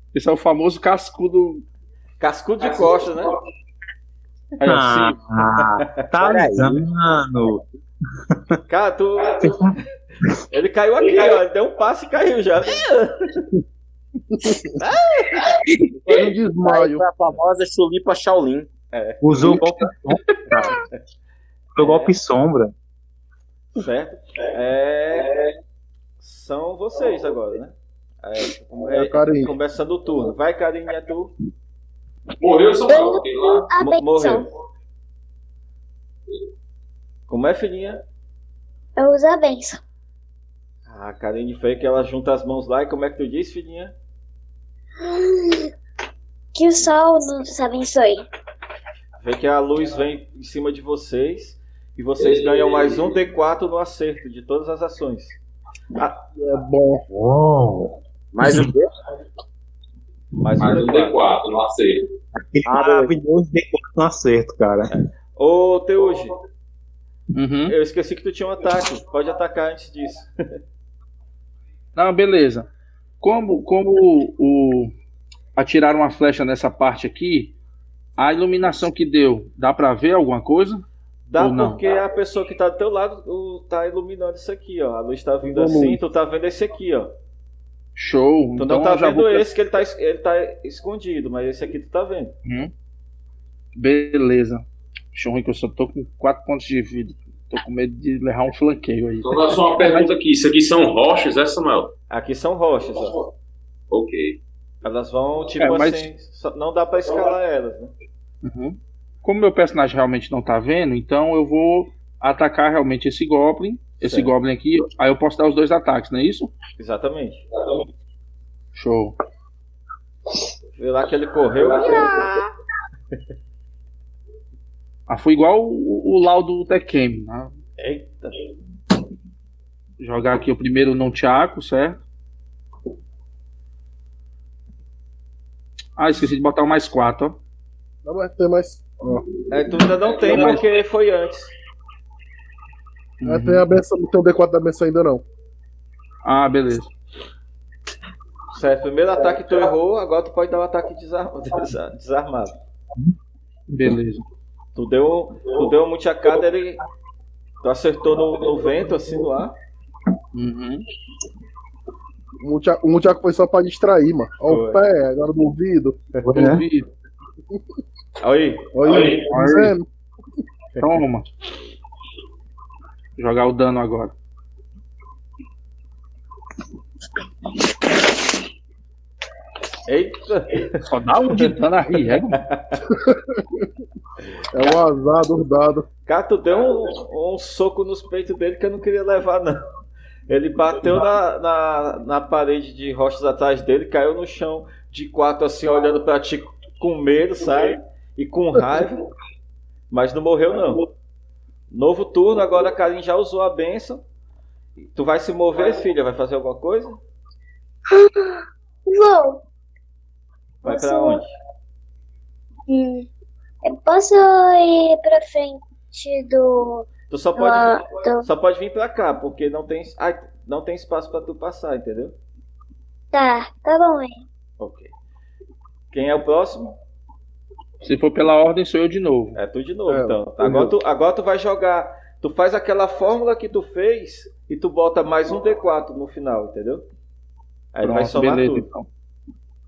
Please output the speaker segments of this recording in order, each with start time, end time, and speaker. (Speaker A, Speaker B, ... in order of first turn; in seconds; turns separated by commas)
Speaker A: 0.1-1.6, Speaker B: 2.2-3.3, Speaker B: 4.6-6.0, Speaker C: 4.6-7.6, Speaker A: 4.7-5.0, Speaker D: 6.2-6.8, Speaker B: 8.7-9.6, Speaker C: 9.4-9.7, Speaker B: 10.5-13.5, Speaker E: 14.3-14.6, Speaker B: 14.8-15.6, Speaker D: 15.8-18.7, Speaker E: 16.1-17.0, Speaker B: 18.9-19.6, Speaker C: 19.2-20.8, Speaker C: 21.7-22.7, Speaker B: 21.8-22.1, Speaker B: 23.7-25.3, Speaker B: 26.2-31.3, Speaker E: 28.9-29.5, Speaker F: 32.4-33.7, Speaker G: 32.9-34.5, Speaker B: 33.8-34.5, Speaker B: 37.3-38.0, Speaker G: 39.0-39.8, Speaker B: 40.9-43.9, Speaker G: 45.0-45.7, Speaker G: 46.5-48.2, Speaker B: 49.2-55.4, Speaker E: 56.4-57.0, Speaker C: 57.1-58.7, Speaker D: 58.3-58.9, Speaker B: 60.3-61.2, Speaker F: 60.6-62.0, Speaker C: 62.4-64.9, Speaker D: 62.6-63.1, Speaker B: 64.9-66.3, Speaker A: 67.3-67.7, Speaker B: 67.7-70.3, Speaker A: 72.0-72.7, Speaker A: 73.2-74.9, Speaker A: 75.5-77.5, Speaker A: 78.2-80.8, Speaker B: 81.2-87.1, Speaker A: 81.4-81.8, Speaker E: 85.4-86.0, Speaker A: 88.0-89.4, Speaker B: 88.6-92.3, Speaker A: 92.4-92.7, Speaker A: 93.8-100.1, Speaker F: 99.2-101.9, Speaker B: 102.1-103.3, Speaker F: 103.9-104.4, Speaker B: 104.8-107.9, Speaker A: 105.6-106.1, Speaker A: 108.4-116.5, Speaker B: 114.0-114.3, Speaker B: 116.8-117.4, Speaker A: 118.7-119.2, Speaker B: 120.8-122.5, Speaker A: 125.1-127.5, Speaker B: 127.8-128.3, Speaker A: 130.0-132.0, Speaker A: 136.0-137.4, Speaker E: 138.0-139.2, Speaker B: 139.5-141.5, Speaker A: 140.3-140.6, Speaker A: 143.2-143.7, Speaker E: 143.2-145.2, Speaker A: 146.2-146.9, Speaker B: 148.5-152.5, Speaker A: 153.7-154.2, Speaker B: 154.8-156.8, Speaker B: 157.6-159.5, Speaker A: 160.3-160.8, Speaker E: 162.4-166.0, Speaker B: 164.5-164.8, Speaker C: 166.2-166.6, Speaker A: 166.3-166.9, Speaker B: 168.2-169.2, Speaker E: 168.7-169.8, Speaker A: 169.2-169.8, Speaker A: 170.8-171.2, Speaker A: 173.2-174.1, Speaker B: 179.9-180.8, Speaker A: 180.9-182.4, Speaker B: 182.3-182.8, Speaker E: 182.9-183.7, Speaker E: 184.5-185.8, Speaker B: 186.1-189.6, Speaker B: 190.3-199.1, Speaker B: 199.9-200.9, Speaker B: 201.7-204.0, Speaker B: 204.8-207.0, Speaker G: 207.9-209.4, Speaker B: 210.6-211.3, Speaker G: 210.6-211.2, Speaker G: 212.7-213.1, Speaker G: 213.6-218.3, Speaker B: 217.1-222.1, Speaker G: 223.1-224.2, Speaker B: 224.6-224.9, Speaker B: 225.9-226.8, Speaker A: 227.8-229.4, Speaker B: 229.3-236.8, Speaker E: 229.9-230.7, Speaker B: 237.7-238.7, Speaker A: 237.8-238.9